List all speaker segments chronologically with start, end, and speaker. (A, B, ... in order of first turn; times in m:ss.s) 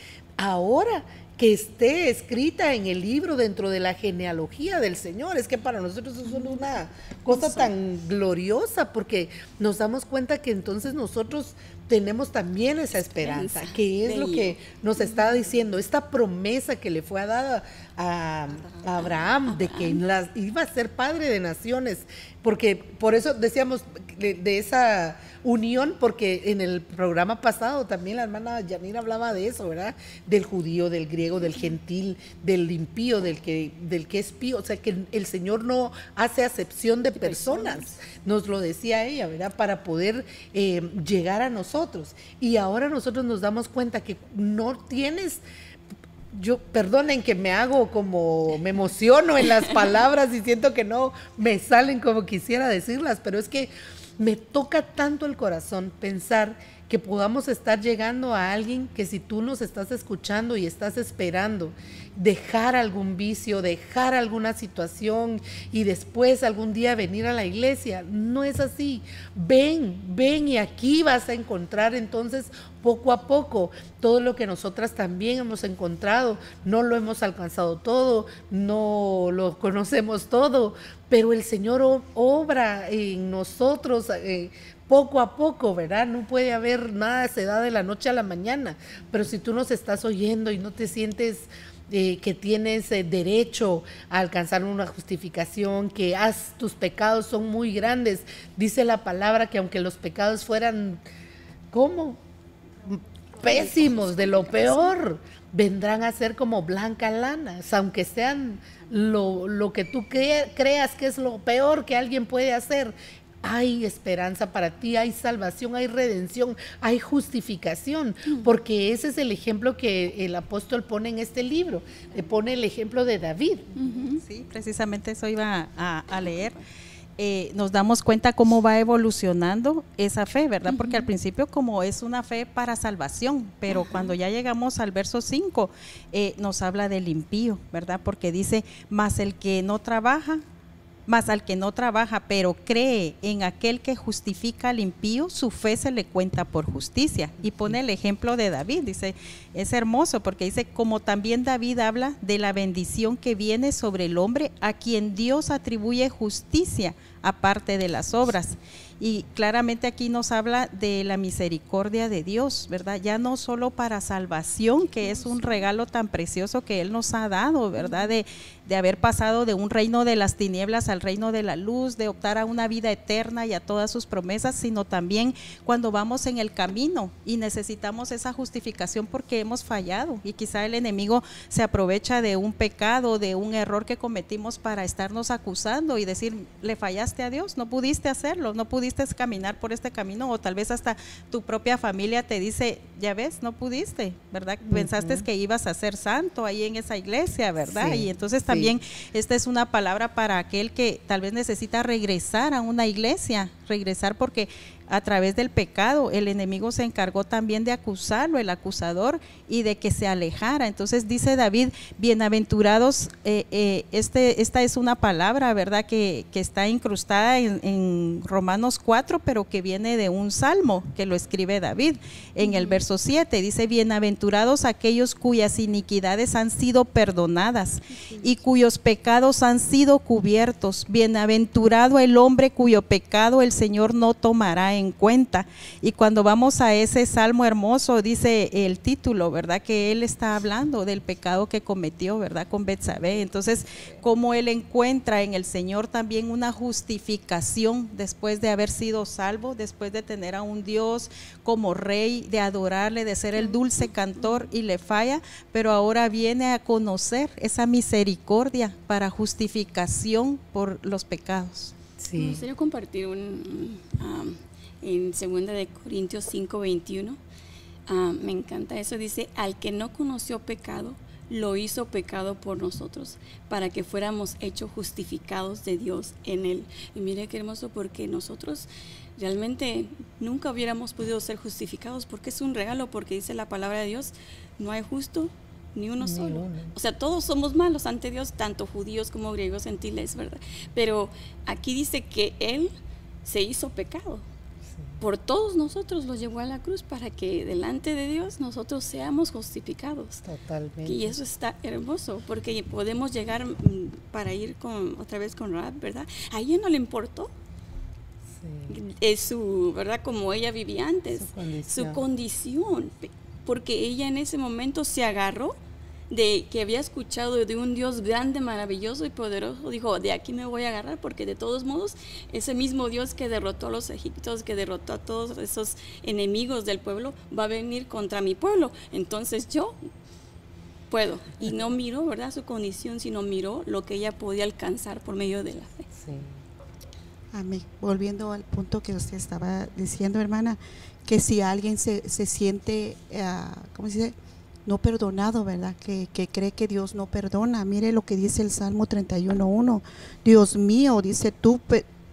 0:00.4-0:45.4 A
0:07.3-0:07.7 B
0:13.1-0:15.2 B
0:19.5-0:20.0 B
0:37.1-0:37.9 B
0:46.3-1:41.0 A
1:41.7-1:42.2 A
1:42.9-2:03.7 A
1:43.4-1:44.9 B
2:03.8-2:04.2 B
2:04.2-2:06.6 C
2:06.3-2:06.6 B
2:07.2-2:20.4 C
2:10.7-2:11.0 B
2:13.7-2:14.1 B
2:21.1-4:21.7 C
2:27.4-2:27.8 A
2:47.8-2:48.1 B
3:14.6-3:15.3 A
3:17.6-3:18.8 A
3:42.4-3:42.8 B
3:48.0-3:48.3 B
4:13.3-4:14.5 B
4:22.0-4:22.4 A
4:22.2-4:27.2 B
4:27.9-4:52.7 B
4:46.0-4:46.8 A
4:53.2-4:54.3 B
4:55.0-5:00.2 B
5:00.2-5:01.2 A
5:00.8-5:07.3 B
5:08.4-5:08.8 A
5:08.7-5:15.6 B
5:11.1-5:12.0 A
5:16.1-5:29.8 B
5:30.9-5:35.9 B
5:36.0-5:36.3 A
5:37.3-5:51.9 D